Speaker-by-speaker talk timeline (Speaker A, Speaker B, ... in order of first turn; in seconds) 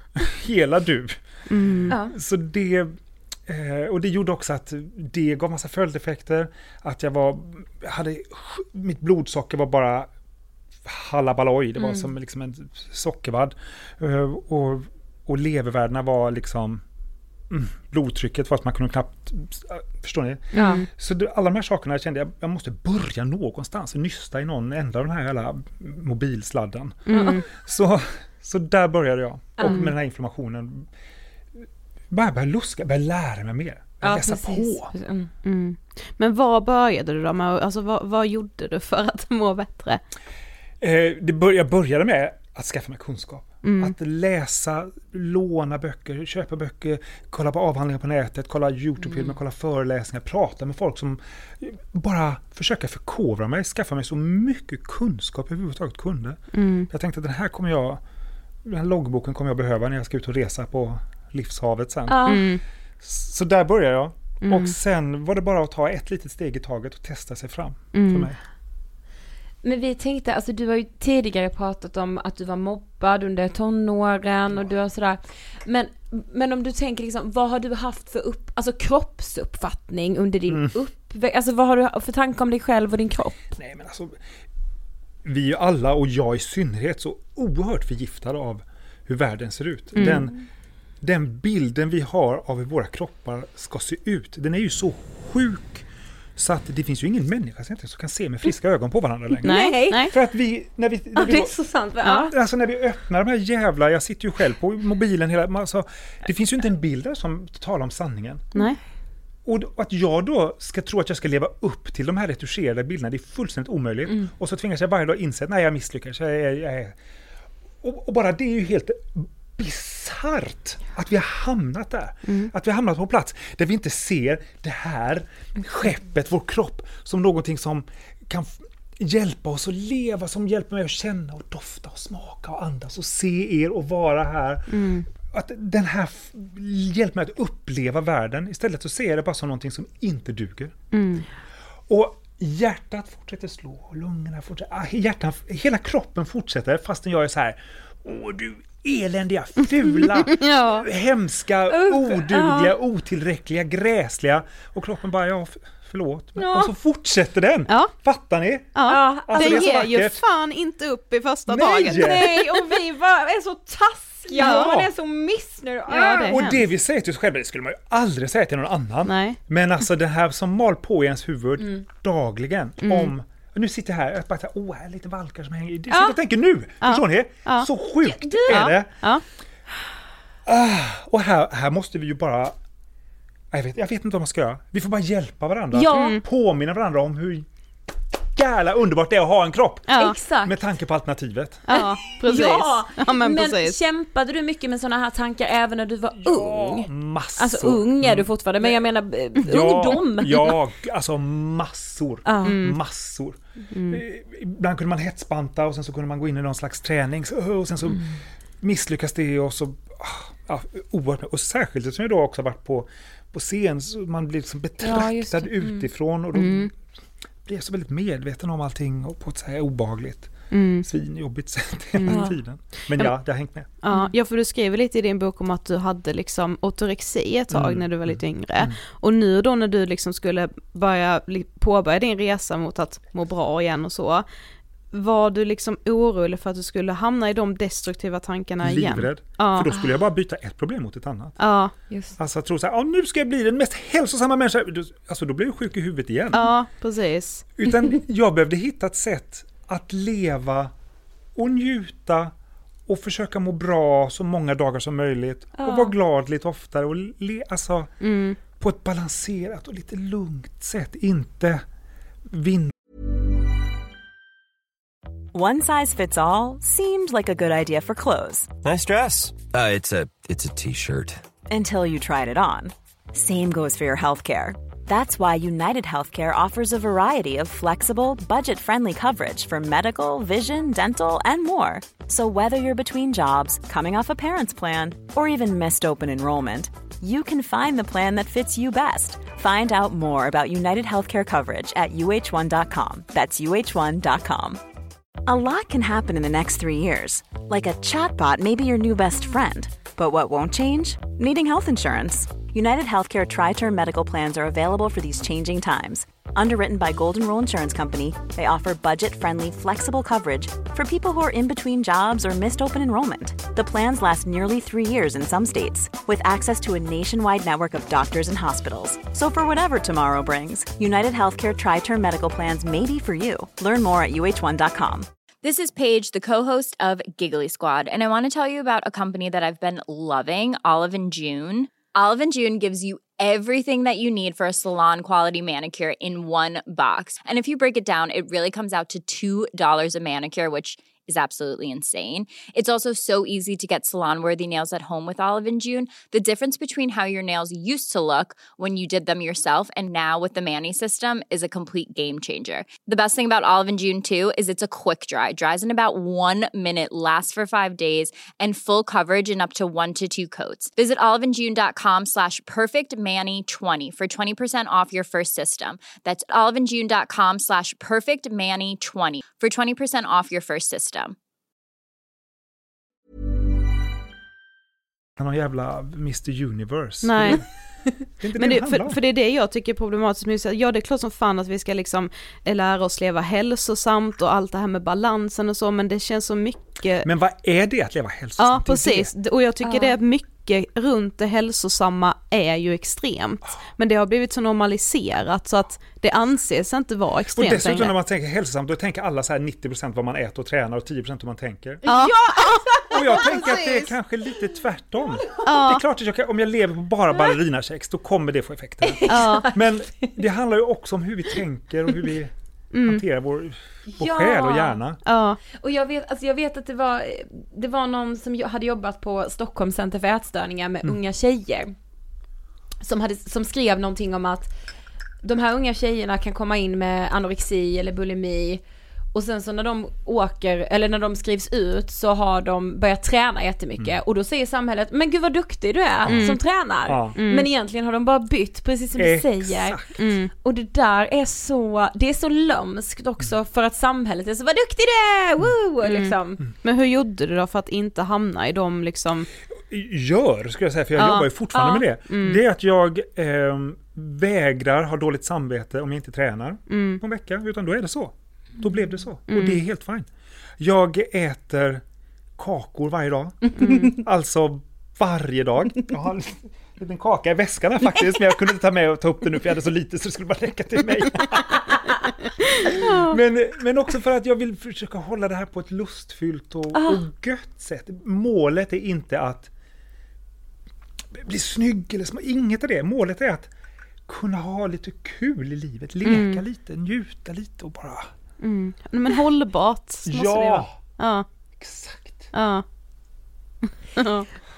Speaker A: 0.1-10.1, 10.8-16.8, 17.5-30.9, 32.1-34.9, 40.8-58.0, 58.6-62.3, 63.0-68.4, 80.5-80.7, 83.5-84.2, 85.2-90.3, 91.0-101.5, 102.3-108.5, 109.5-117.0, 117.8-140.7, 141.9-160.2, 161.5-162.6, 164.3-164.9, 165.9-179.0, 180.4-182.6, 183.5-187.5, 188.1-191.7, 196.2-198.8, 199.3-216.7, 217.4-220.3, 220.8-223.7, 227.5-228.8, 238.6-241.4, 242.2-246.4, 247.6-250.7, 251.3-252.3, 252.9-257.9, 258.5-261.6, 262.3-262.7, 375.2-377.4, 378.2-379.0, 387.0-389.1, 397.3-401.8, 402.9-415.0, 436.1-436.3, 436.9-437.2, 439.0-439.9, 449.5-461.8, 462.4-471.9, 472.8-479.5, 481.1-483.5, 484.1-488.1, 490.1-490.8, 491.6-492.3
Speaker B: 1.5-1.9, 20.6-20.9, 27.1-27.4, 35.4-40.0, 43.6-43.9, 56.5-56.9, 62.2-62.6, 64.4-64.7, 67.9-68.3, 90.0-90.3, 99.4-100.1, 134.7-135.1, 140.9-141.2, 150.1-150.8, 158.7-162.3, 164.4-164.8, 165.9-166.5, 169.1-169.4, 172.8-173.1, 176.8-177.7, 178.5-179.2, 185.9-186.2, 189.9-190.2, 191.7-193.8, 202.4-202.8, 203.7-204.0, 216.3-216.7, 220.5-220.8, 222.0-222.3, 223.8-234.2, 234.9-239.7, 241.4-241.7, 246.3-247.5, 258.0-258.4, 377.0-377.4, 378.4-387.1, 388.4-397.9, 401.9-403.9, 405.4-405.8, 409.1-409.5, 412.7-413.0, 415.1-415.4, 436.1-436.4, 437.1-437.5, 440.0-440.3, 445.8-449.3, 450.9-452.4, 456.7-457.0, 459.3-459.6, 463.6-463.9, 472.5-473.1, 486.0-486.4, 488.4-491.2, 492.3-492.6, 494.0-494.3
Speaker C: 11.8-12.1, 20.5-20.8, 27.1-27.4, 29.6-29.9, 34.0-35.3, 62.1-62.5, 69.6-83.3, 90.0-90.3, 99.4-100.1, 101.2-102.3, 151.7-152.7, 156.3-156.7, 158.9-159.7, 161.8-166.6, 178.1-178.7, 185.7-186.2, 189.9-190.6, 191.7-200.5, 202.2-202.6, 214.8-215.8, 222.1-222.3, 241.9-242.2, 255.6-255.9, 389.6-390.0, 401.8-403.4, 408.8-409.5, 413.9-414.8, 415.5-421.7, 422.8-424.5, 425.2-428.6, 429.1-446.4, 463.6-464.0, 476.7-477.0
Speaker D: 265.3-268.5, 271.5-294.6, 295.2-325.1
Speaker E: 268.6-271.2
Speaker F: 325.4-371.1